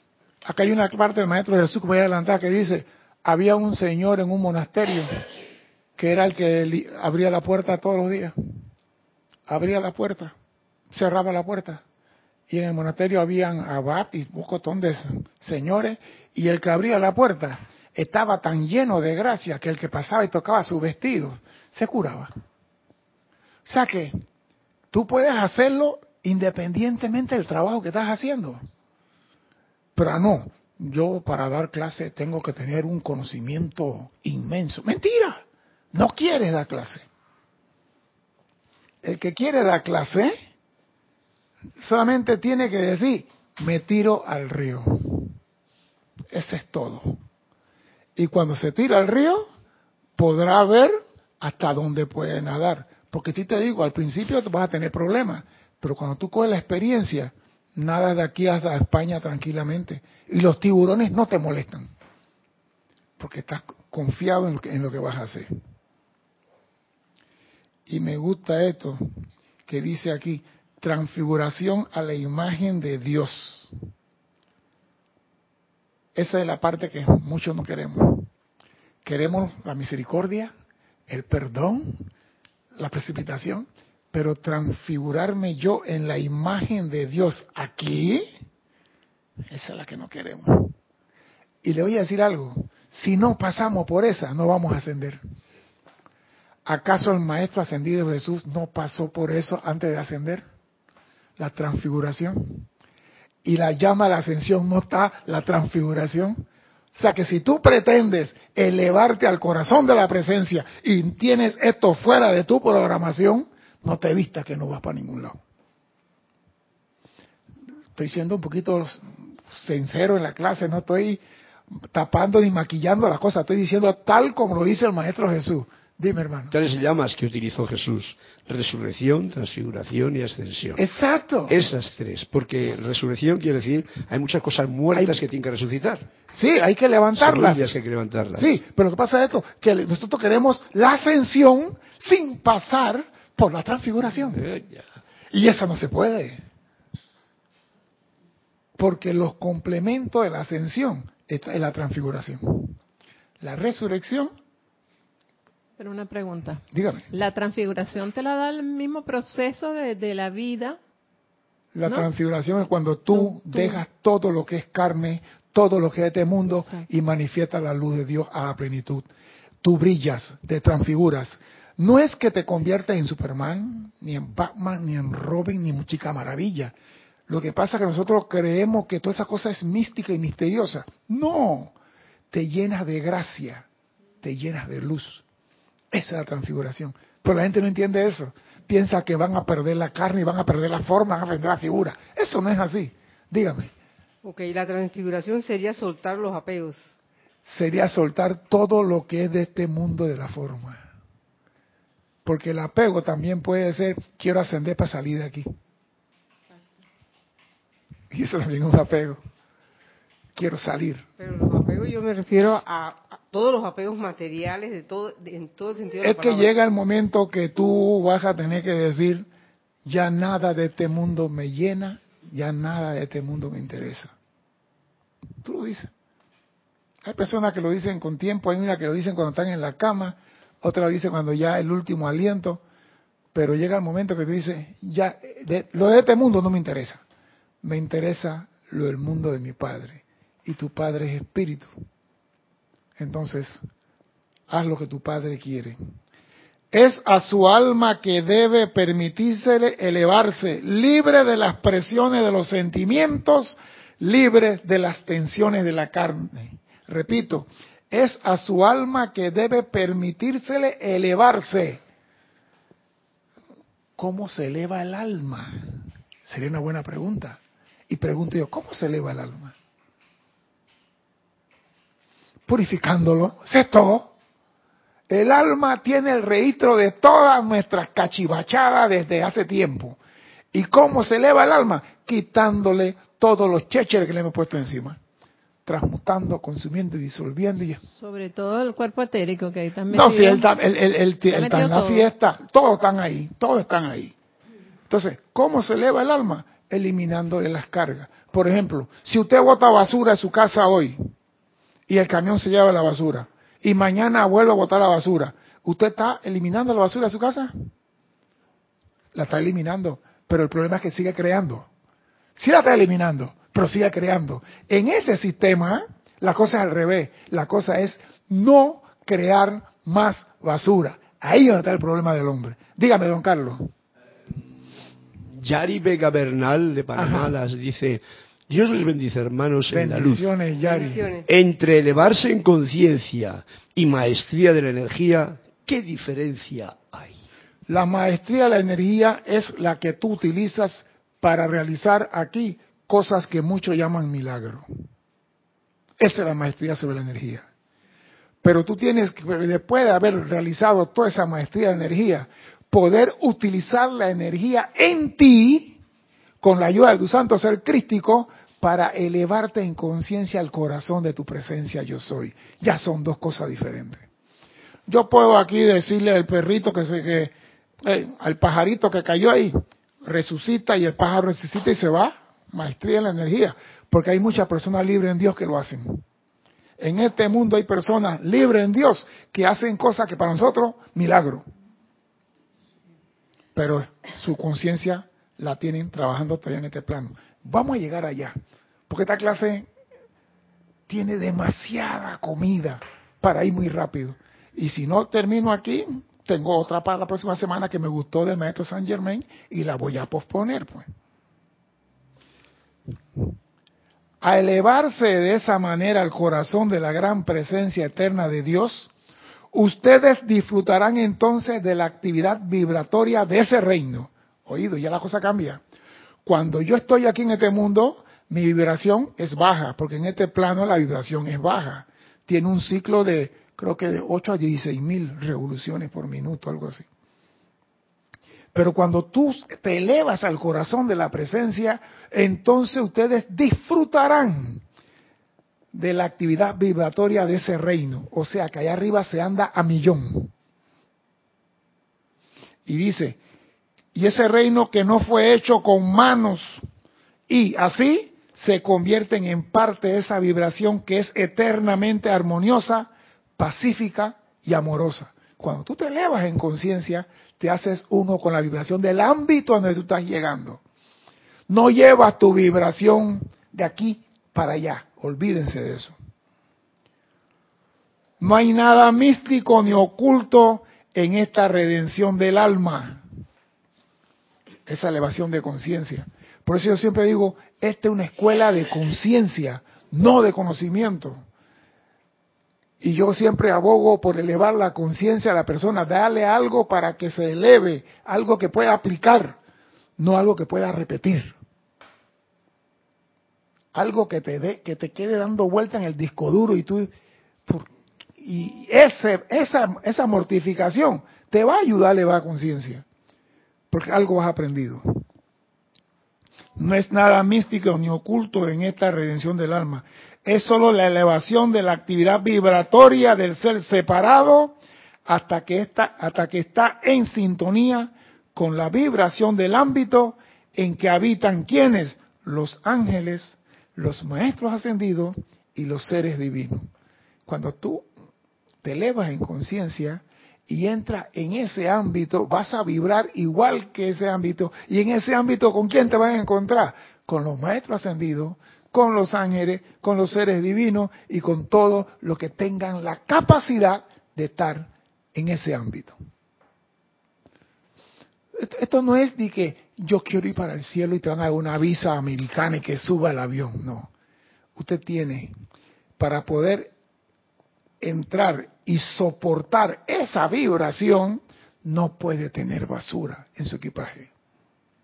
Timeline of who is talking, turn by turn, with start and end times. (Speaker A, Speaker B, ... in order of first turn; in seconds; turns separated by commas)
Speaker A: 0.5-5.3, Speaker A: 6.0-8.4, Speaker A: 9.5-10.3, Speaker A: 10.9-11.8, Speaker A: 12.5-22.3, Speaker A: 23.7-24.2, Speaker A: 24.9-28.6, Speaker A: 30.0-37.1, Speaker A: 39.0-40.4, Speaker A: 41.8-45.4, Speaker A: 46.3-47.2, Speaker A: 48.2-49.5, Speaker A: 50.2-61.9, Speaker A: 63.2-65.5, Speaker A: 67.9-69.0, Speaker A: 69.7-73.7, Speaker A: 76.2-78.3, Speaker A: 79.0-80.5, Speaker A: 81.1-82.1, Speaker A: 82.8-88.3, Speaker A: 89.5-90.8, Speaker A: 91.6-95.2, Speaker A: 96.7-100.5, Speaker A: 101.4-102.7, Speaker A: 103.4-115.4, Speaker A: 118.0-121.2, Speaker A: 121.9-126.5, Speaker B: 126.5-130.8, Speaker A: 130.8-131.6, Speaker B: 131.5-136.1, Speaker A: 136.3-137.7, Speaker B: 137.2-138.5, Speaker A: 138.4-144.4, Speaker B: 144.0-144.9, Speaker A: 145.3-146.4, Speaker A: 148.8-152.8, Speaker A: 153.4-154.3, Speaker C: 155.8-160.8, Speaker A: 156.7-157.1, Speaker A: 161.8-169.1, Speaker C: 163.1-163.8, Speaker A: 169.6-176.7, Speaker A: 177.3-181.7, Speaker A: 182.3-183.7, Speaker A: 184.2-185.2, Speaker A: 185.9-193.7, Speaker D: 194.2-196.9, Speaker A: 197.4-200.8, Speaker A: 202.2-205.5, Speaker A: 208.1-209.2, Speaker A: 210.4-211.1, Speaker D: 211.2-216.5, Speaker A: 216.0-219.3, Speaker A: 219.8-224.1, Speaker A: 225.4-225.9, Speaker A: 227.0-232.6, Speaker A: 233.3-237.0, Speaker A: 237.6-241.7, Speaker A: 243.0-243.6, Speaker A: 244.5-245.8, Speaker A: 246.7-261.8, Speaker A: 264.0-269.6, Speaker A: 272.5-274.1, Speaker A: 275.1-280.0, Speaker A: 280.5-285.0, Speaker A: 285.7-287.8, Speaker C: 287.8-290.5, Speaker A: 289.9-294.1, Speaker C: 291.3-292.1, Speaker A: 294.9-301.0, Speaker A: 301.9-307.5, Speaker A: 309.1-311.7, Speaker A: 312.4-323.7, Speaker B: 325.3-330.3, Speaker A: 326.9-327.3, Speaker A: 329.7-331.1, Speaker D: 330.7-331.3, Speaker B: 331.3-337.2, Speaker A: 337.7-344.7, Speaker A: 346.0-347.5, Speaker A: 348.4-355.8, Speaker A: 356.4-364.1, Speaker A: 364.9-367.3, Speaker A: 367.9-376.1, Speaker A: 376.8-381.5, Speaker A: 383.6-388.4, Speaker A: 388.9-389.7, Speaker A: 390.9-400.9, Speaker A: 404.2-408.9, Speaker A: 409.5-415.6, Speaker A: 416.2-426.9, Speaker A: 428.5-434.6, Speaker A: 435.7-440.3, Speaker A: 442.7-443.2, Speaker A: 443.9-446.6, Speaker A: 447.3-460.6, Speaker A: 461.5-466.0, Speaker A: 468.2-473.0, Speaker A: 474.7-481.2, Speaker A: 482.8-489.4, Speaker A: 490.0-491.3, Speaker A: 493.7-496.9, Speaker A: 497.5-502.9, Speaker A: 503.7-505.0, Speaker A: 506.6-526.7, Speaker A: 527.3-527.9, Speaker A: 528.6-546.0, Speaker A: 548.4-553.9, Speaker A: 554.6-555.3, Speaker A: 556.0-556.7, Speaker A: 557.8-564.1